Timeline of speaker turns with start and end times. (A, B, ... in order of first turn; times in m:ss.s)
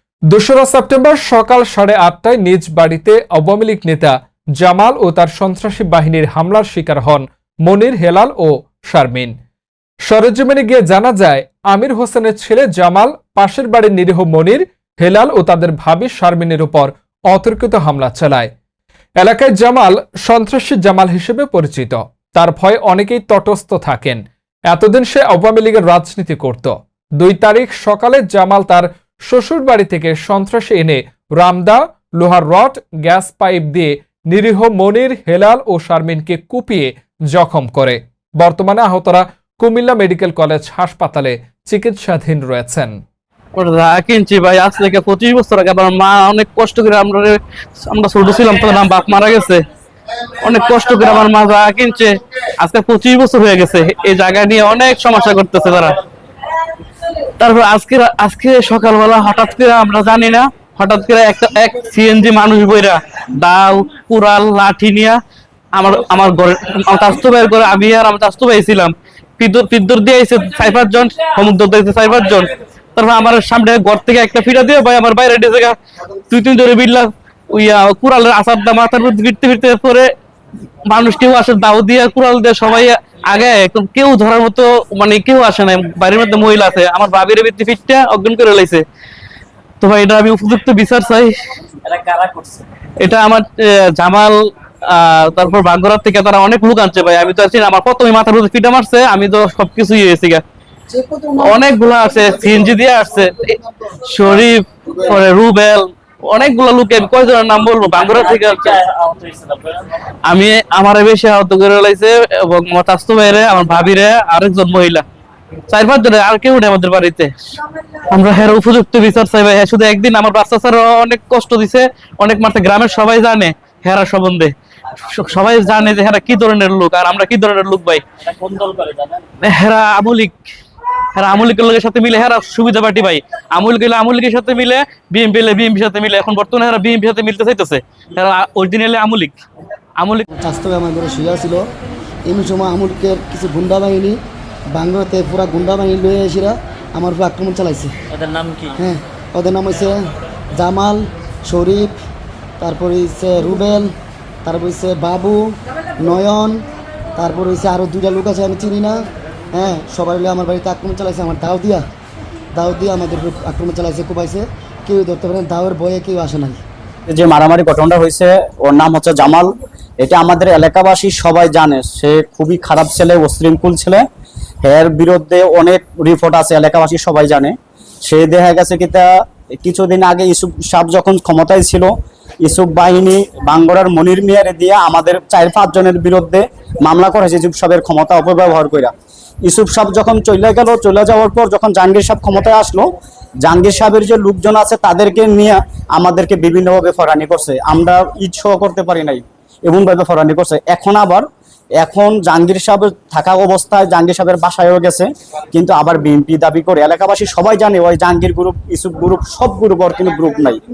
0:00.3-0:09.3 A
0:10.1-0:18.5 A
0:19.2-0:43.0 A
0:43.5-0:49.6 B
0:50.4-0:56.0 B
0:57.4-1:05.2 B
1:05.7-1:15.8 B
1:16.3-1:20.1 B
1:20.9-1:28.8 B
1:29.8-1:31.4 B
1:31.8-1:32.6 C
1:33.0-1:40.4 B
1:41.2-1:48.8 B
1:48.5-1:49.7 C
1:50.2-1:55.0 B
1:55.7-1:57.3 B
1:58.1-2:04.5 B
2:05.1-2:08.0 B
2:08.2-2:09.2 C
2:09.4-2:10.4 B
2:11.1-2:19.4 B
2:20.0-2:20.2 B
2:20.3-2:21.7 D
2:22.2-2:27.9 D
2:28.2-2:28.7 C
2:28.8-2:32.0 D
2:32.6-2:33.9 D
2:34.4-2:36.6 D
2:37.2-2:39.0 D
2:39.5-2:41.8 D
2:42.5-2:46.6 D
2:47.1-2:54.0 E
2:54.6-2:59.1 E
2:59.6-3:01.9 E
3:02.4-3:08.9 E
3:09.4-3:12.9 E
3:13.4-3:21.2 E
3:21.8-3:30.6 E